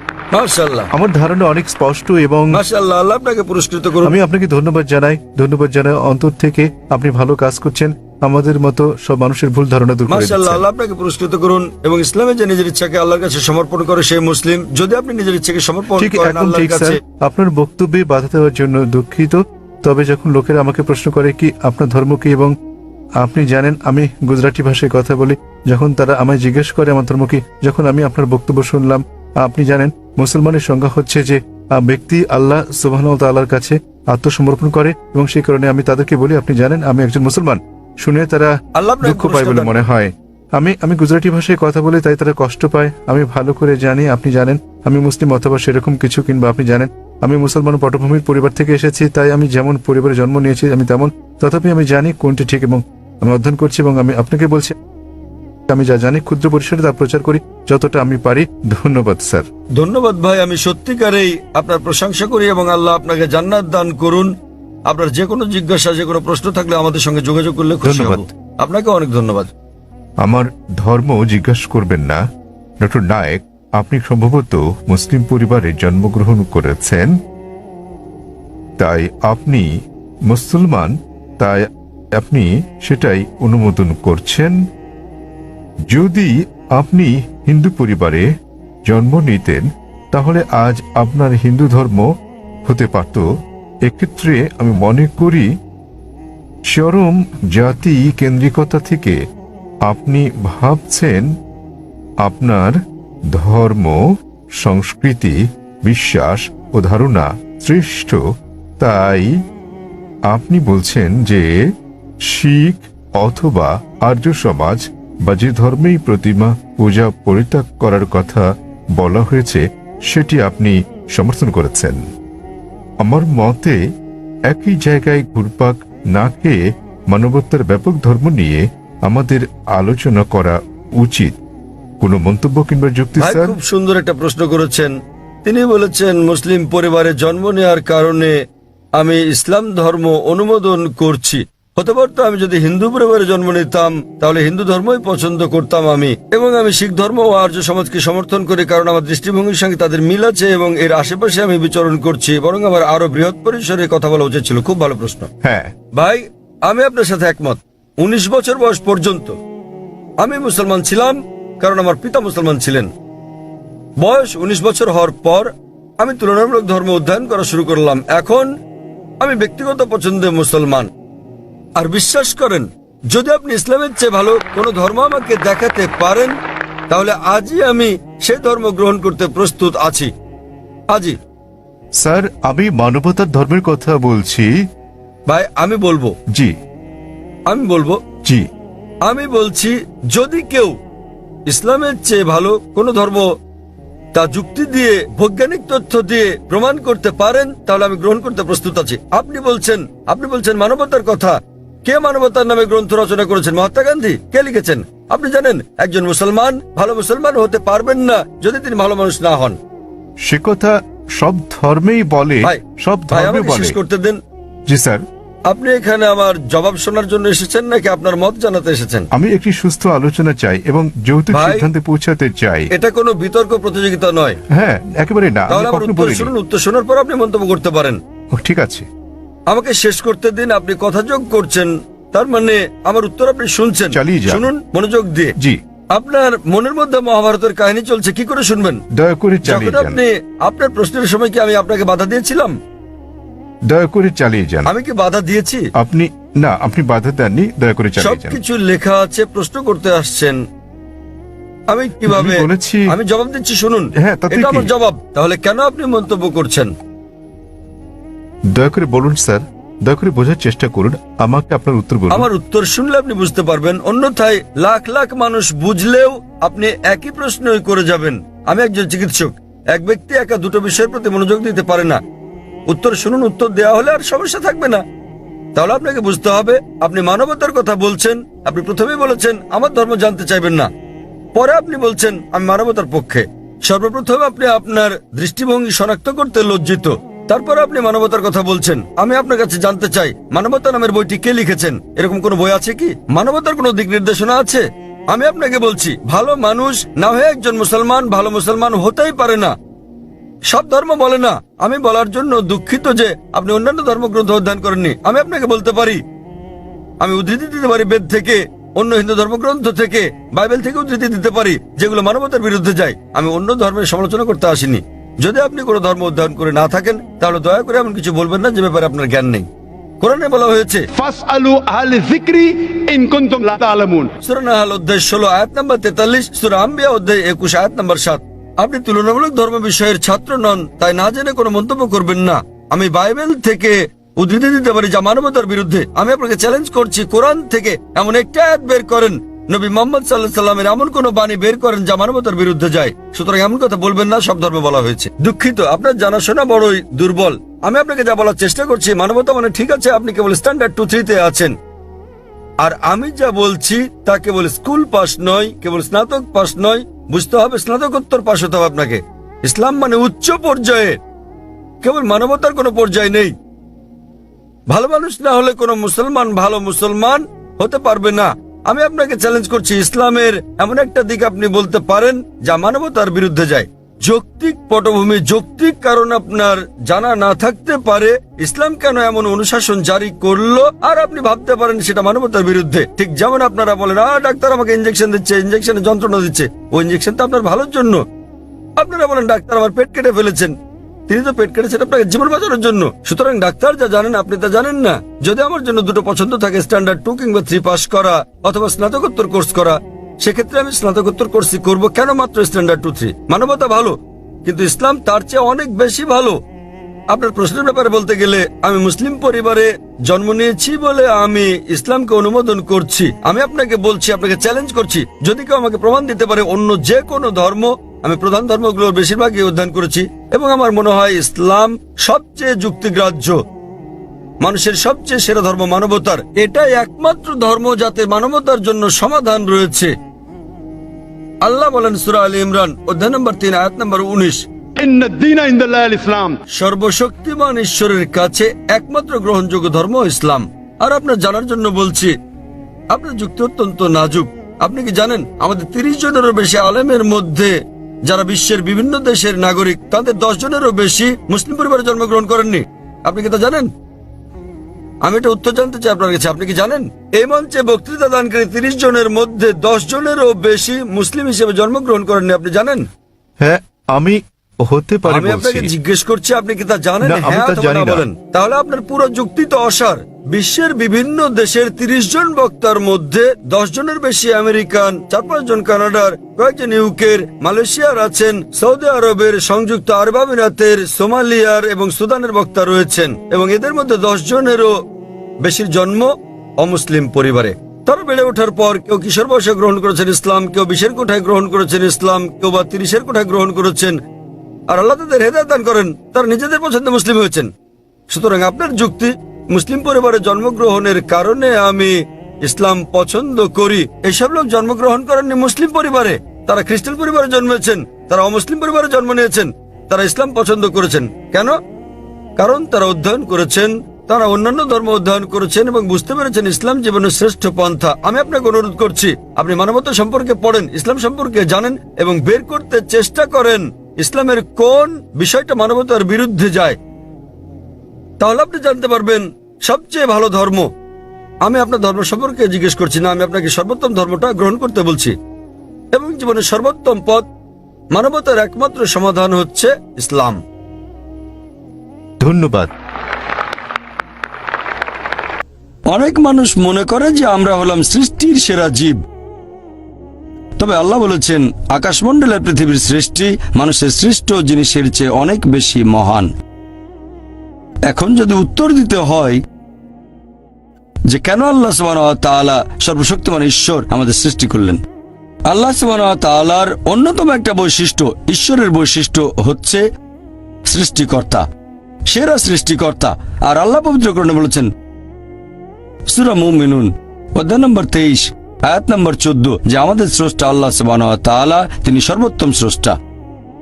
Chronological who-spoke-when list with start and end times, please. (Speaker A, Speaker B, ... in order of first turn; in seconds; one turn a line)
Speaker A: 0.3-0.9
Speaker B: 0.9-2.6
Speaker A: 2.5-4.2
Speaker B: 4.0-10.6
Speaker A: 10.1-17.0
Speaker B: 16.0-22.5
Speaker B: 23.2-54.8
Speaker A: 38.8-39.8
Speaker B: 55.7-59.5
Speaker A: 59.8-64.3
Speaker A: 64.9-69.5
Speaker B: 67.8-68.2
Speaker B: 70.2-72.2
Speaker B: 72.8-77.2
Speaker B: 78.8-79.7
Speaker B: 80.3-84.6
Speaker B: 85.9-88.3
Speaker B: 88.9-92.1
Speaker B: 92.6-93.3
Speaker B: 93.8-95.5
Speaker B: 96.7-99.2
Speaker B: 99.8-101.3
Speaker B: 102.2-108.2
Speaker B: 108.8-109.4
Speaker B: 110.3-122.0
Speaker B: 123.0-123.8
Speaker B: 124.5-131.4
Speaker B: 132.0-133.6
Speaker A: 133.2-138.4
Speaker A: 139.0-155.3
Speaker B: 155.4-155.7
Speaker A: 155.9-159.4
Speaker A: 160.2-162.9
Speaker A: 164.0-168.5
Speaker A: 169.2-170.9
Speaker A: 171.8-176.3
Speaker A: 176.9-180.1
Speaker A: 180.9-181.2
Speaker B: 182.0-184.5
Speaker A: 185.3-186.1
Speaker A: 187.5-188.0
Speaker A: 189.0-190.7
Speaker A: 191.5-193.3
Speaker A: 194.1-209.6
Speaker B: 210.2-213.8
Speaker A: 213.1-214.2
Speaker B: 214.7-215.0
Speaker A: 215.5-219.1
Speaker B: 219.1-222.7
Speaker A: 221.3-221.7
Speaker A: 222.7-224.4
Speaker B: 224.5-226.3
Speaker A: 225.5-228.0
Speaker B: 228.3-228.9
Speaker A: 229.5-235.3
Speaker B: 233.9-234.5
Speaker A: 235.9-238.8
Speaker B: 238.9-240.0
Speaker A: 239.4-242.5
Speaker B: 243.7-244.7
Speaker A: 244.7-245.6
Speaker B: 245.8-248.4
Speaker A: 248.0-250.4
Speaker A: 251.7-256.7
Speaker B: 252.1-252.9
Speaker B: 254.0-254.7
Speaker B: 258.5-262.3
Speaker A: 262.1-272.0
Speaker A: 272.7-274.8
Speaker A: 275.5-280.7
Speaker A: 281.4-299.5
Speaker A: 300.5-306.0
Speaker A: 307.0-319.5
Speaker A: 320.0-320.9
Speaker C: 320.9-324.1
Speaker A: 324.2-351.5
Speaker A: 352.6-361.0
Speaker A: 361.8-363.3
Speaker A: 364.7-388.0
Speaker A: 388.8-390.5
Speaker A: 391.1-406.4
Speaker A: 407.1-423.4
Speaker A: 424.4-429.9
Speaker A: 431.4-434.4
Speaker C: 434.8-436.4
Speaker A: 436.5-442.1
Speaker A: 442.9-447.5
Speaker A: 448.1-453.7
Speaker A: 455.0-462.9
Speaker B: 463.4-465.7
Speaker A: 465.1-484.7
Speaker B: 467.0-468.0
Speaker A: 485.4-494.0
Speaker A: 494.7-497.5
Speaker A: 498.1-511.5
Speaker A: 512.4-526.8
Speaker A: 528.2-530.7
Speaker A: 531.4-535.1
Speaker A: 535.9-537.2
Speaker A: 537.9-540.4
Speaker B: 542.2-542.7
Speaker A: 545.9-549.0
Speaker A: 550.6-556.3
Speaker A: 557.9-559.4
Speaker A: 561.1-564.8
Speaker A: 565.5-569.8
Speaker A: 570.7-571.4
Speaker A: 572.1-574.7
Speaker A: 576.1-583.0